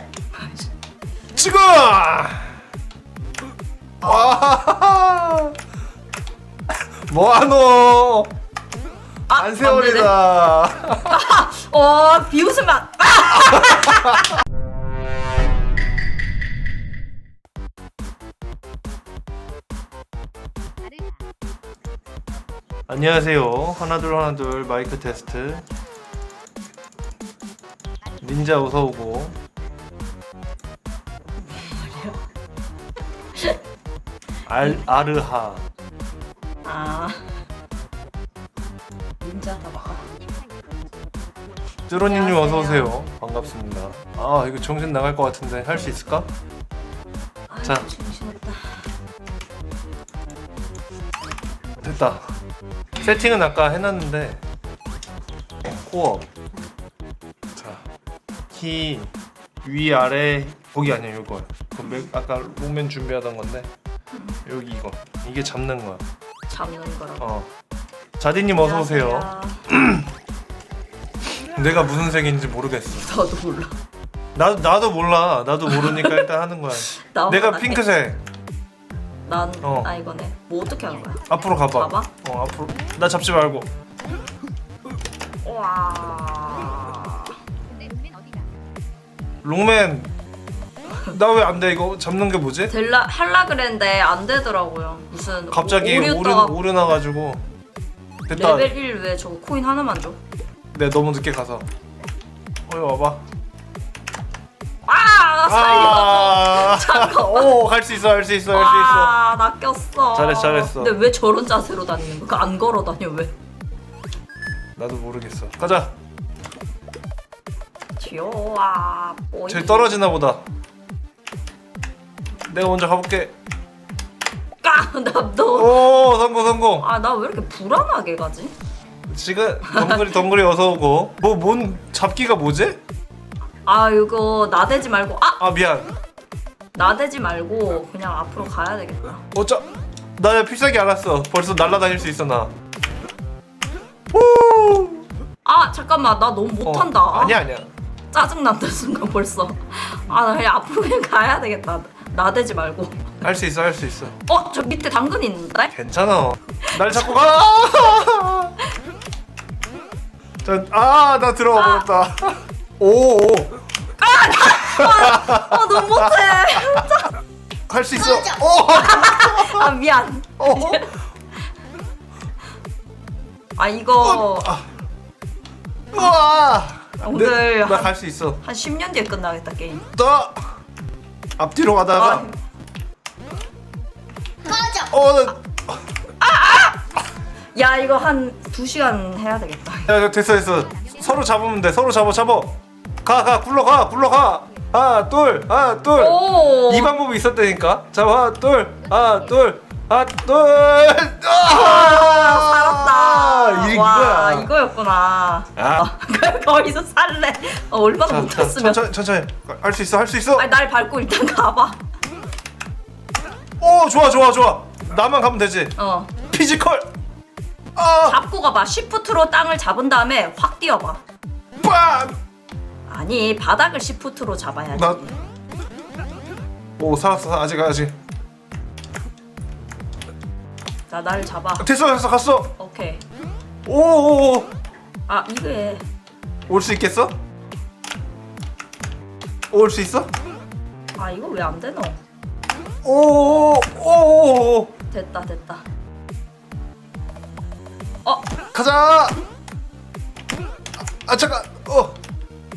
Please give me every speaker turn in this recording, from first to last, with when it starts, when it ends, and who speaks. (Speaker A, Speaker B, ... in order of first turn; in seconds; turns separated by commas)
Speaker A: 0.3-0.7, Speaker B: 1.3-2.5, Speaker B: 4.0-5.5, Speaker A: 4.0-4.4, Speaker B: 7.1-8.3, Speaker A: 9.3-10.1, Speaker B: 9.3-11.2, Speaker A: 11.1-14.3, Speaker B: 22.9-25.6, Speaker B: 28.2-29.3, Speaker A: 31.4-32.1, Speaker B: 34.5-35.6, Speaker A: 36.6-37.2, Speaker A: 39.2-40.0, Speaker B: 41.9-46.3, Speaker A: 42.0-42.9, Speaker A: 47.5-48.6, Speaker B: 51.8-52.2, Speaker B: 53.0-54.4, Speaker B: 55.7-56.2, Speaker B: 57.6-57.8, Speaker B: 58.5-59.1, Speaker B: 59.6-63.7, Speaker B: 64.5-66.0, Speaker A: 66.5-67.2, Speaker B: 67.2-67.5, Speaker B: 68.2-70.1, Speaker A: 68.6-69.7, Speaker B: 71.5-73.1, Speaker A: 73.0-73.7, Speaker B: 74.3-78.2, Speaker A: 75.7-76.2, Speaker A: 76.8-77.8, Speaker A: 79.3-82.1, Speaker B: 79.6-79.9, Speaker B: 81.3-83.7, Speaker A: 85.4-87.3, Speaker B: 89.4-90.1, Speaker B: 91.1-92.7, Speaker A: 92.7-96.5, Speaker B: 95.5-97.4, Speaker B: 98.3-98.7, Speaker A: 98.3-100.2, Speaker B: 100.7-101.6, Speaker B: 102.7-103.2, Speaker A: 104.8-107.6, Speaker B: 105.5-109.1, Speaker A: 108.5-113.3, Speaker B: 110.1-110.9, Speaker B: 114.8-115.9, Speaker A: 118.0-120.0, Speaker B: 119.5-120.4, Speaker B: 122.5-123.3, Speaker A: 124.6-125.8, Speaker B: 125.5-126.9, Speaker A: 126.8-128.5, Speaker B: 129.1-132.8, Speaker A: 129.7-130.1, Speaker A: 133.7-135.4, Speaker B: 135.4-135.9, Speaker A: 136.7-139.2, Speaker B: 139.3-139.7, Speaker B: 140.2-142.5, Speaker B: 144.1-145.0, Speaker A: 145.4-147.4, Speaker B: 146.6-147.7, Speaker A: 148.1-153.2, Speaker B: 153.2-154.2, Speaker A: 154.2-155.7, Speaker B: 155.7-158.5, Speaker A: 156.7-156.9, Speaker B: 160.4-163.5, Speaker A: 161.5-161.8, Speaker A: 164.0-167.1, Speaker B: 164.6-166.1, Speaker B: 167.7-169.7, Speaker A: 168.7-170.9, Speaker B: 170.4-170.8, Speaker A: 173.6-174.5, Speaker B: 174.0-174.6, Speaker B: 175.9-178.4, Speaker A: 177.0-179.8, Speaker B: 179.9-180.4, Speaker B: 181.4-182.2, Speaker A: 181.9-182.3, Speaker B: 184.7-185.8, Speaker A: 186.2-186.8, Speaker A: 187.5-189.9, Speaker B: 189.9-204.5, Speaker A: 195.9-196.9, Speaker A: 201.4-208.8, Speaker B: 205.6-205.9, Speaker B: 208.1-210.5, Speaker A: 210.3-211.8, Speaker B: 213.6-215.7, Speaker A: 215.8-216.1, Speaker B: 216.3-216.9, Speaker B: 217.8-218.2, Speaker A: 218.0-221.0, Speaker B: 221.6-222.2, Speaker A: 222.9-225.2, Speaker B: 224.7-225.0, Speaker B: 226.8-227.9, Speaker A: 230.9-231.7, Speaker B: 231.6-232.5, Speaker A: 232.6-233.0, Speaker B: 233.7-234.5, Speaker A: 235.1-235.8, Speaker B: 236.5-237.1, Speaker B: 239.5-240.1, Speaker A: 240.9-242.0, Speaker B: 242.8-244.7, Speaker A: 244.9-245.6, Speaker B: 248.5-249.2, Speaker B: 251.0-251.9